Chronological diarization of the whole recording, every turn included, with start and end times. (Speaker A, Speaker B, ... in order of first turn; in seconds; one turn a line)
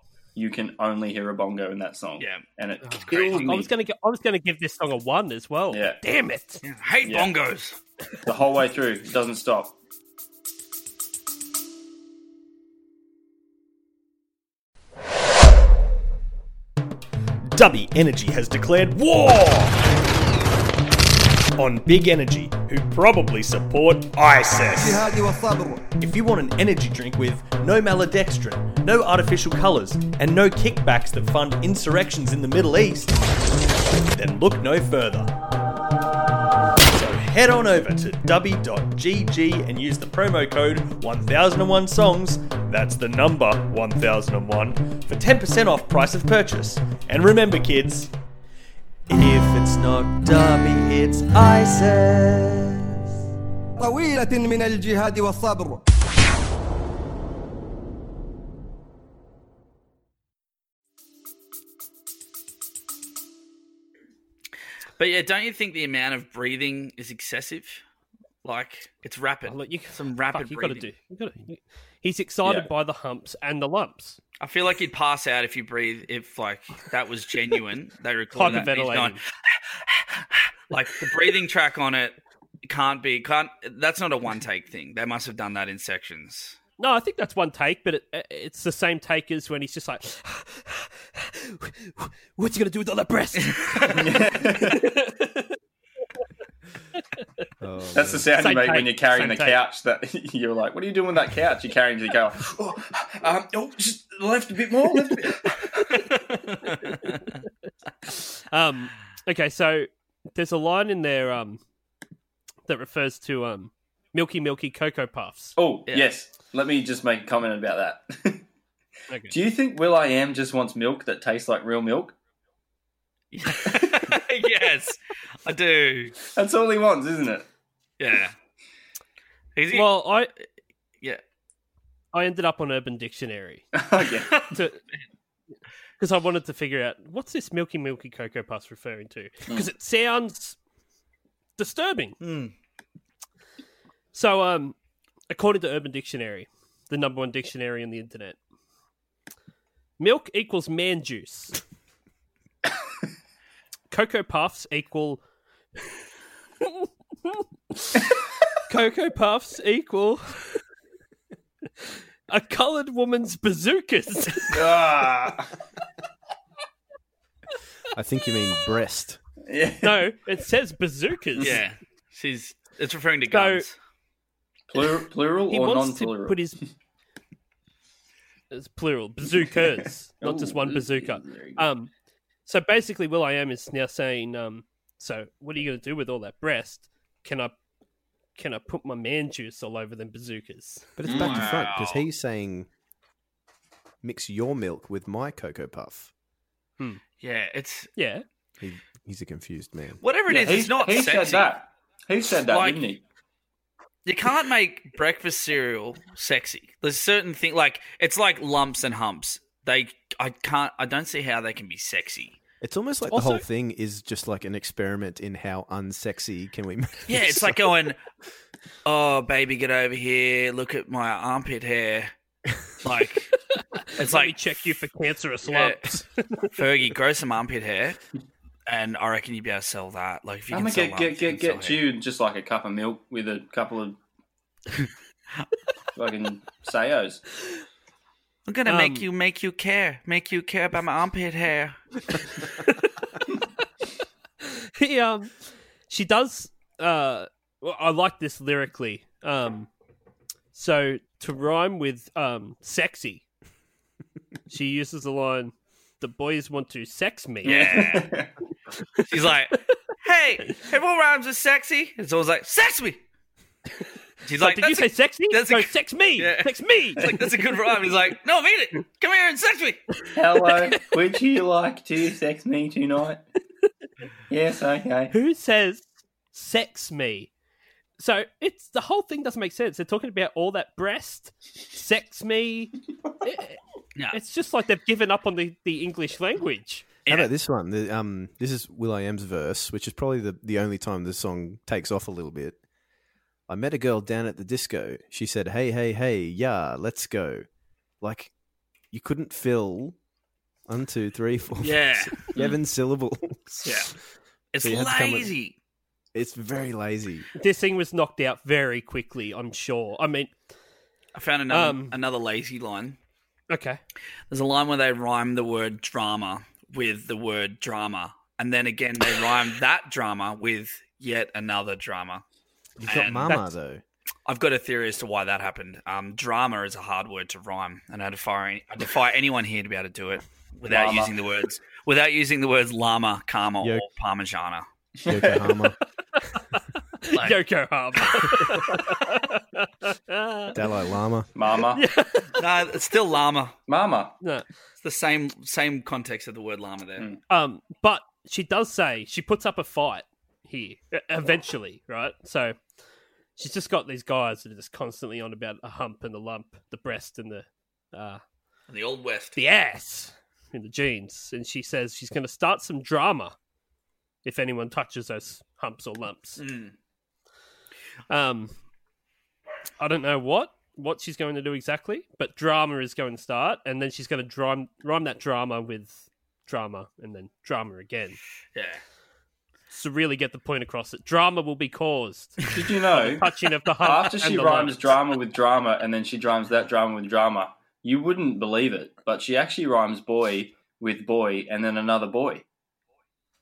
Speaker A: 0.3-3.7
Speaker B: 2.2-2.4
Speaker C: 2.8-6.6
Speaker B: 3.0-3.7
Speaker A: 5.7-6.0
Speaker B: 6.6-7.8
Speaker A: 7.0-7.3
Speaker A: 8.2-9.8
Speaker D: 17.5-19.9
Speaker D: 21.6-25.0
Speaker E: 24.7-25.8
Speaker D: 26.0-33.1
Speaker D: 34.1-35.3
Speaker D: 36.9-48.1
Speaker D: 49.1-53.0
Speaker E: 53.8-55.8
Speaker B: 65.0-67.8
Speaker B: 68.4-70.9
Speaker C: 69.5-74.2
Speaker B: 74.4-79.2
Speaker C: 78.3-79.2
Speaker B: 79.8-86.6
Speaker C: 86.8-94.1
Speaker B: 93.4-94.0
Speaker A: 93.9-94.9
Speaker C: 94.6-95.5
Speaker F: 97.6-98.3
Speaker A: 97.9-106.1
Speaker C: 98.4-99.6
Speaker B: 106.2-106.9
Speaker C: 106.8-107.3
Speaker C: 108.1-111.6
Speaker C: 112.7-115.5
Speaker A: 115.6-118.5
Speaker C: 119.1-119.3
Speaker A: 119.3-122.1
Speaker B: 123.3-126.2
Speaker A: 123.6-124.1
Speaker A: 126.3-127.5
Speaker B: 128.0-128.3
Speaker B: 129.6-130.4
Speaker C: 129.7-130.3
Speaker C: 132.1-133.7
Speaker A: 133.8-134.4
Speaker B: 134.3-134.5
Speaker C: 134.5-134.8
Speaker C: 136.0-140.6
Speaker C: 141.6-142.2
Speaker B: 142.2-142.5
Speaker C: 144.1-144.8
Speaker C: 145.3-148.4
Speaker C: 150.0-151.6
Speaker C: 153.9-155.2
Speaker C: 156.7-158.1
Speaker C: 158.7-160.6
Speaker C: 162.3-164.6
Speaker A: 164.5-165.5
Speaker F: 167.9-169.2
Speaker A: 169.5-170.0
Speaker C: 169.8-171.6
Speaker B: 171.4-173.8
Speaker C: 173.3-173.7
Speaker A: 174.7-176.4
Speaker C: 175.5-176.6
Speaker C: 178.5-181.9
Speaker A: 179.7-181.7
Speaker C: 182.5-187.6
Speaker C: 188.4-190.9
Speaker F: 191.0-192.7
Speaker A: 191.1-191.6
Speaker B: 191.1-192.0
Speaker F: 194.0-196.1
Speaker B: 197.2-197.9
Speaker C: 198.0-198.2
Speaker F: 198.6-200.0
Speaker B: 200.0-201.5
Speaker A: 200.3-203.0
Speaker B: 202.5-202.8
Speaker B: 204.1-212.4
Speaker F: 212.6-217.6
Speaker C: 213.1-213.4
Speaker B: 217.1-218.0
Speaker B: 218.8-222.1
Speaker B: 222.8-223.4
Speaker C: 223.5-226.5
Speaker B: 223.9-224.5
Speaker B: 225.5-226.0
Speaker B: 226.5-228.0
Speaker B: 228.7-231.8
Speaker A: 230.5-234.0
Speaker A: 235.9-237.2
Speaker B: 238.5-242.2
Speaker C: 238.7-239.1
Speaker C: 242.6-243.1
Speaker C: 244.4-245.3
Speaker C: 245.9-249.7
Speaker C: 250.5-253.2
Speaker C: 254.5-257.7
Speaker A: 257.4-258.3
Speaker B: 257.4-258.2
Speaker B: 259.1-263.0
Speaker B: 264.2-269.8
Speaker C: 264.4-267.3
Speaker A: 270.1-273.2
Speaker A: 274.3-275.1
Speaker C: 275.1-277.3
Speaker C: 278.0-283.6
Speaker C: 284.1-286.9
Speaker F: 287.1-292.6
Speaker F: 293.5-297.5
Speaker F: 298.0-298.3
Speaker F: 298.9-300.0
Speaker F: 300.7-303.8
Speaker B: 301.6-302.2
Speaker B: 303.6-303.9
Speaker B: 304.5-305.6
Speaker F: 304.6-305.3
Speaker F: 306.1-307.3
Speaker C: 307.4-310.3
Speaker B: 311.1-313.0
Speaker C: 311.5-311.9
Speaker C: 313.5-313.8
Speaker B: 314.3-322.2
Speaker F: 322.8-323.8
Speaker B: 322.8-323.4
Speaker B: 324.3-334.6
Speaker A: 330.7-331.1
Speaker F: 333.6-333.9
Speaker A: 335.0-335.5
Speaker F: 335.1-335.8
Speaker C: 336.2-340.6
Speaker B: 337.1-337.4
Speaker F: 340.5-341.3
Speaker A: 341.4-341.8
Speaker C: 341.7-342.4
Speaker B: 342.4-343.6
Speaker A: 343.7-344.2
Speaker C: 344.2-344.5
Speaker B: 344.8-347.1
Speaker C: 347.3-352.6
Speaker C: 353.4-358.2
Speaker B: 358.7-359.4
Speaker C: 359.4-363.4
Speaker C: 364.2-366.4
Speaker B: 366.4-366.7
Speaker C: 368.1-368.5
Speaker C: 369.8-378.2
Speaker B: 378.6-378.8
Speaker C: 379.7-384.8
Speaker A: 382.5-392.4